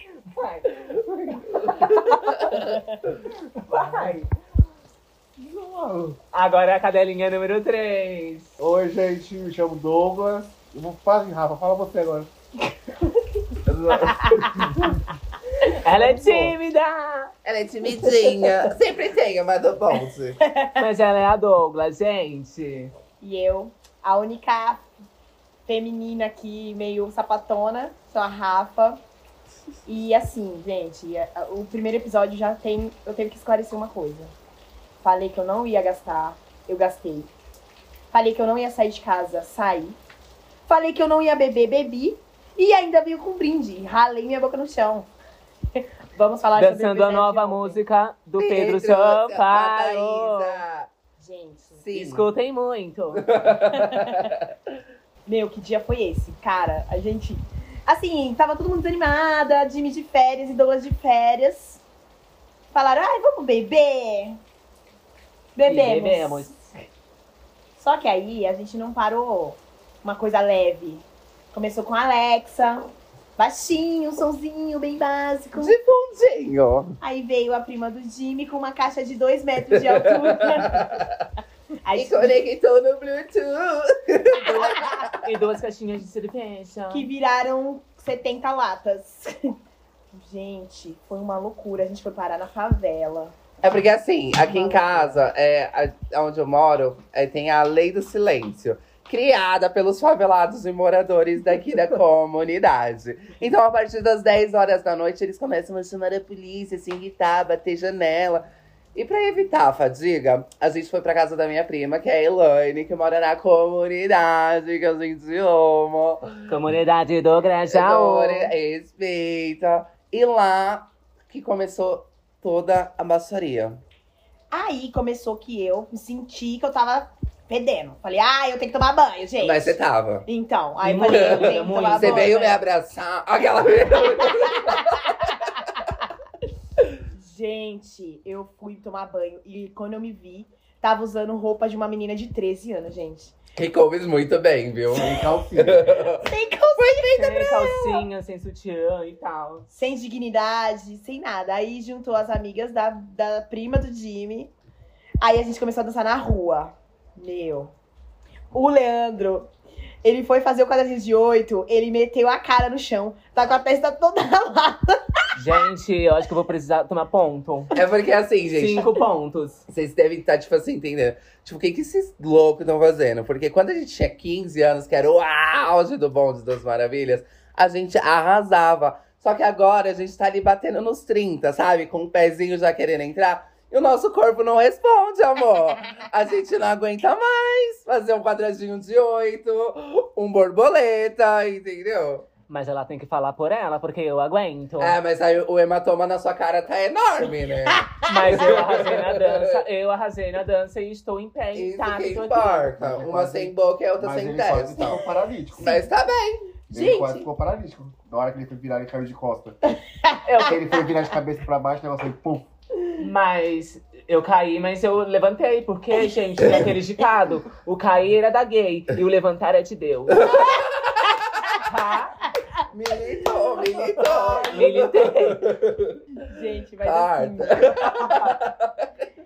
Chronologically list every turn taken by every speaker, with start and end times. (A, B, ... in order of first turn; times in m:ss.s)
0:00.3-0:02.6 A
0:01.7-0:02.3 B
0:03.6-0:04.3 A
0:05.7-0:08.5 A
0:08.6-0:12.3 C
0:13.7-0:14.1 B
0:14.0-0:14.7 D
0:14.5-0:14.9 C
0:15.6-0:17.3 A
0:17.4-0:20.4 B
0:17.9-0:18.6 A
0:20.5-0:20.8 D
0:20.8-0:22.9 A
0:23.2-0:24.8 D
0:25.7-0:29.0 D
0:29.9-0:34.3 D
0:35.0-0:37.3 D
0:38.1-0:40.0 D
0:40.7-0:45.1 D
0:45.8-0:47.8 D
0:46.6-0:50.6 A
0:48.4-0:50.9 B
0:51.2-0:51.8 D
0:51.8-0:52.3 B
0:51.9-0:53.2 A
0:53.2-0:54.4 B
0:53.7-0:54.2 D
0:55.3-1:01.8 D
1:02.7-1:04.4 D
1:05.6-1:06.5 D
1:05.6-1:06.9 A
1:07.8-1:12.8 D
1:13.4-1:15.8 D
1:15.6-1:17.0 B
1:17.0-1:21.0 D
1:19.7-1:21.1 B
1:21.9-1:22.4 D
1:21.9-1:25.1 B
1:24.4-1:25.1 D
1:25.2-1:27.1 A
1:26.9-1:29.3 D
1:30.1-1:33.4 D
1:33.6-1:56.5 B
1:34.4-1:35.2 D
1:56.5-1:58.6 A
1:57.7-2:03.8 B
2:04.5-2:12.4 D
2:09.4-2:10.2 B
2:10.8-2:12.6 A
2:11.1-2:15.2 B
2:14.2-2:15.4 D
2:17.1-2:23.3 D
2:23.6-2:27.1 B
2:24.9-2:26.0 C
2:26.2-2:27.9 D
2:27.2-2:29.7 A
2:29.7-2:34.5 D
2:35.2-2:37.7 D
2:38.5-2:39.5 D
2:40.0-2:45.2 D
2:45.4-2:47.7 A
2:47.7-2:48.9 B
2:48.5-2:49.6 A
2:49.7-3:12.3 B
3:12.5-3:15.0 A
3:14.8-3:19.3 B
3:18.1-3:22.6 A
3:18.1-3:18.7 D
3:21.5-3:25.0 B
3:21.8-3:22.2 D
3:22.8-3:25.8 C
3:25.6-3:25.9 D
3:25.6-3:27.2 B
3:26.7-3:29.6 C
3:30.2-3:30.6 A
3:30.5-3:32.5 C
3:33.0-3:40.4 A
3:40.2-3:40.9 B
3:41.6-3:42.2 A
3:42.7-3:46.0 B
3:43.8-3:44.7 D
3:44.4-3:45.4 A
3:46.2-3:48.2 D
3:46.8-3:48.7 B
3:47.8-3:48.4 A